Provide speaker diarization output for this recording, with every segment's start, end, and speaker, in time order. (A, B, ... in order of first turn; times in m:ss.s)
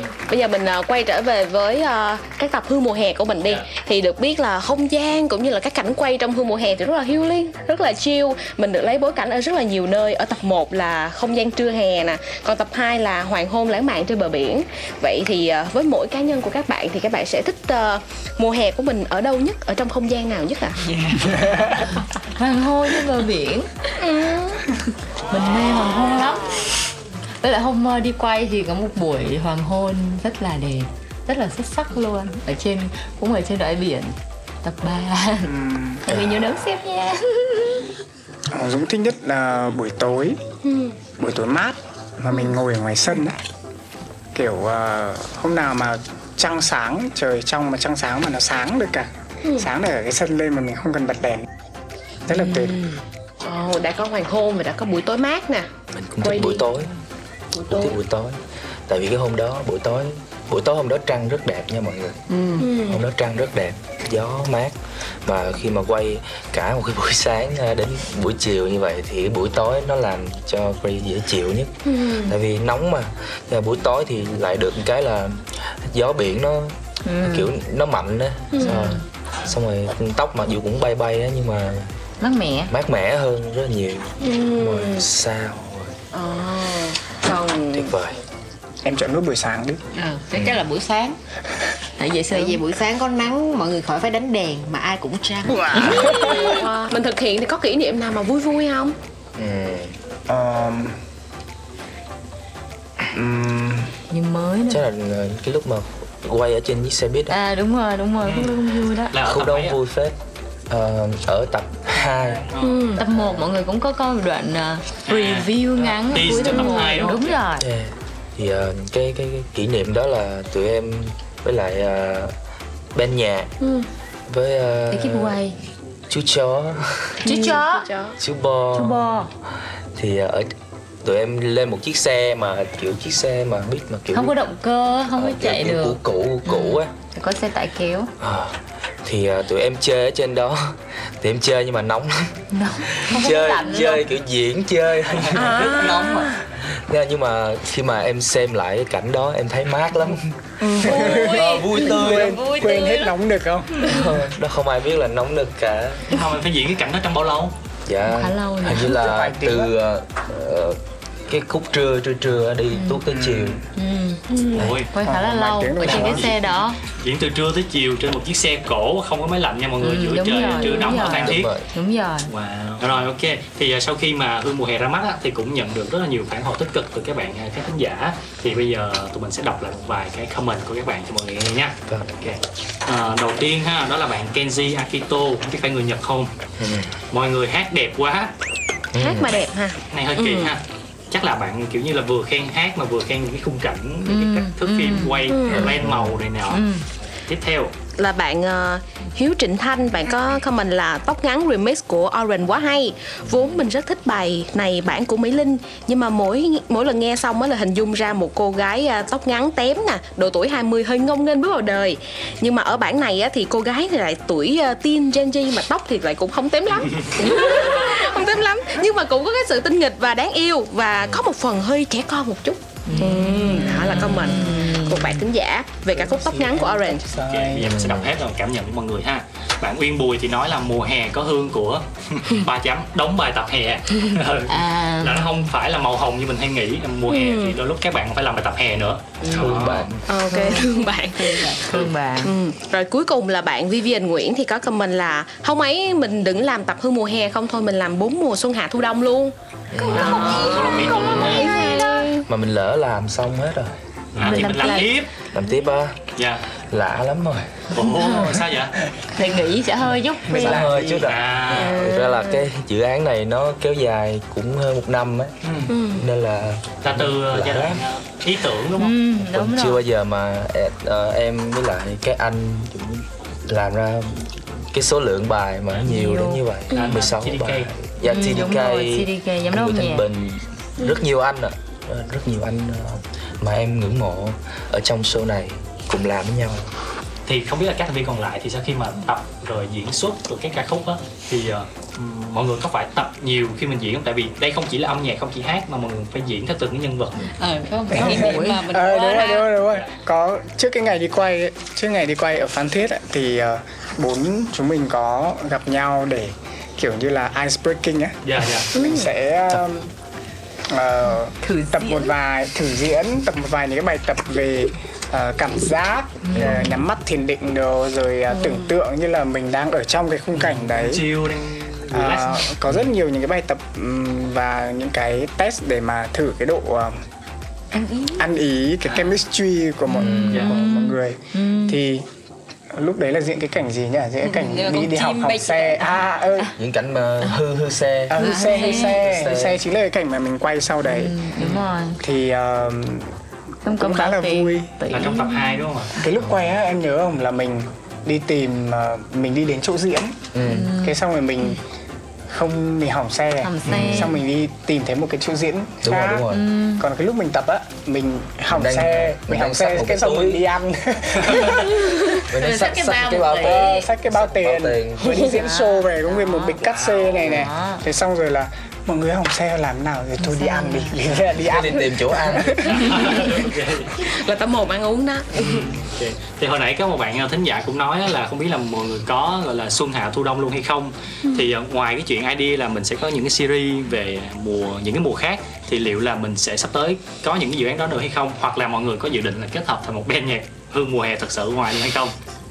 0:00.3-0:20.8 A
0:21.3-0:21.7 B
0:22.4-0:23.7 C
0:24.0-0:24.6 A
0:25.3-0:26.5 C
0:27.4-0:35.5 C
0:35.4-0:36.0 B
0:36.0-0:37.8 C
0:36.1-0:36.4 D
0:38.5-0:40.4 B
0:40.6-0:41.0 A
0:41.2-0:43.4 B
0:44.4-0:51.5 B
0:52.3-0:52.8 B
0:52.3-0:55.7 A
0:55.9-0:56.9 D
0:56.2-0:56.6 A
0:57.6-0:57.9 E
0:57.7-1:02.2 D
1:02.3-1:02.7 E
1:02.6-1:03.0 A
1:02.8-1:21.9 D
1:11.9-1:12.3 A
1:17.0-1:17.5 C
1:18.5-1:18.9 A
1:18.6-1:19.0 C
1:22.2-1:22.7 C
1:22.7-1:26.0 D
1:24.2-1:25.0 A
1:26.1-1:27.9 A
1:27.7-1:28.2 D
1:28.8-1:29.8 B
1:30.0-1:31.2 E
1:32.0-1:32.6 C
1:32.3-1:35.7 E
1:35.7-1:36.3 C
1:35.8-1:36.4 D
1:35.8-1:39.0 A
1:39.4-1:40.0 D
1:40.3-1:41.0 B
1:43.1-1:43.9 B
1:44.1-1:44.8 C
1:44.7-1:47.4 D
1:47.3-1:49.1 C
1:48.2-1:48.6 F
1:49.1-1:49.8 F
1:49.2-1:50.2 D
1:50.7-1:53.5 D
1:52.5-1:52.9 F
1:52.6-1:53.0 A
1:53.0-1:57.7 C
1:55.1-1:57.4 F
1:56.5-1:57.0 A
1:57.6-2:02.3 D
2:02.9-2:03.5 D
2:03.6-2:03.9 A
2:04.3-2:05.4 D
2:04.9-2:05.6 C
2:06.1-2:07.4 D
2:07.2-2:08.2 A
2:07.2-2:07.9 C
2:08.2-2:09.1 D
2:08.8-2:09.3 C
2:10.0-2:10.5 D
2:11.0-2:14.4 D
2:14.1-2:18.1 C
2:15.1-2:16.9 D
2:18.2-2:22.4 D
2:22.5-2:24.0 C
2:22.9-2:32.4 D
2:25.3-2:26.3 A
2:30.6-2:33.9 B
2:30.7-2:33.1 C
2:33.8-2:36.1 D
2:36.1-2:37.5 F
2:37.9-2:43.6 D
2:38.1-2:38.9 C
2:38.9-2:39.7 B
2:42.7-2:43.0 C
2:43.1-2:43.6 B
2:43.8-2:44.2 C
2:44.3-2:44.6 A
2:44.6-2:44.9 F
2:44.9-2:46.8 C
2:45.0-2:46.4 B
2:45.8-2:46.3 F
2:46.9-2:51.5 F
2:49.8-2:52.3 C
2:51.1-2:51.6 D
2:52.3-3:06.3 F
3:01.9-3:02.1 D
3:06.6-3:06.9 D
3:07.1-3:08.3 F
3:08.9-3:09.4 D
3:09.0-3:10.5 A
3:09.9-3:16.6 F
3:14.0-3:15.3 C
3:15.3-3:15.7 A
3:15.5-3:16.2 D
3:16.5-3:16.8 C
3:17.3-3:17.7 F
3:18.0-3:47.0 A
3:37.2-3:37.7 C
3:42.9-3:45.2 C
3:46.0-3:47.7 B
3:47.2-3:59.9 F
3:47.6-3:48.1 D
3:54.5-3:55.4 C
3:57.1-3:57.6 A
3:59.2-3:59.6 C
3:59.4-4:00.0 D
4:00.1-4:01.6 A
4:00.3-4:02.4 C
4:02.2-4:09.4 A
4:09.7-4:11.6 D
4:09.8-4:11.8 C
4:09.9-4:11.6 F
4:09.9-4:12.2 A
4:12.3-4:14.8 D
4:14.1-4:15.1 F
4:14.2-4:14.9 C
4:15.3-4:16.1 D
4:16.2-4:16.4 F
4:16.7-4:17.9 D
4:17.7-4:18.8 F
4:19.1-4:20.7 C
4:20.3-4:21.1 B
4:20.3-4:25.4 D
4:21.1-4:21.8 F
4:21.6-4:22.4 A
4:25.4-4:25.7 F
4:25.7-4:26.0 A
4:25.9-4:27.8 D
4:26.8-4:29.0 F
4:28.8-4:29.8 C
4:29.2-4:46.7 D
4:35.9-4:36.9 C
4:36.7-4:37.7 F
4:38.0-4:40.0 C
4:47.3-4:57.3 F
4:57.4-4:59.5 E
4:57.7-4:58.6 C
4:57.9-5:08.2 B
5:08.2-5:08.7 F
5:08.7-5:09.1 A
5:08.7-5:09.9 B
5:10.7-5:21.1 B
5:11.4-5:12.1 C
5:16.3-5:16.8 C
5:18.3-5:18.6 A
5:20.4-5:22.8 F
5:21.9-5:27.0 B
5:28.2-5:32.0 B
5:29.9-5:31.8 C
5:29.9-5:30.5 D
5:32.7-5:36.5 B
5:34.2-5:35.9 E
5:36.6-5:39.6 D
5:38.1-5:41.2 B
5:38.2-5:39.0 C
5:40.8-5:42.0 C
5:42.0-5:43.1 B
5:43.6-5:45.7 C
5:43.7-5:44.7 B
5:44.9-5:46.0 F
5:46.0-5:50.2 B
5:46.2-5:46.5 D
5:50.3-5:50.7 D
5:50.4-5:51.0 C
5:50.8-5:51.6 B
5:52.3-5:56.3 B
5:53.4-5:54.2 C
5:53.7-5:54.1 D
5:55.8-5:56.4 D
5:56.3-5:56.8 C
5:56.8-6:01.9 B
5:58.5-6:00.4 D
6:02.1-6:03.9 C
6:02.3-6:05.2 D
6:03.4-6:13.1 B
6:05.2-6:07.8 C
6:06.6-6:07.2 F
6:10.2-6:11.0 C
6:11.4-6:12.6 D
6:12.7-6:14.0 F
6:14.0-6:15.7 A
6:15.4-6:32.1 F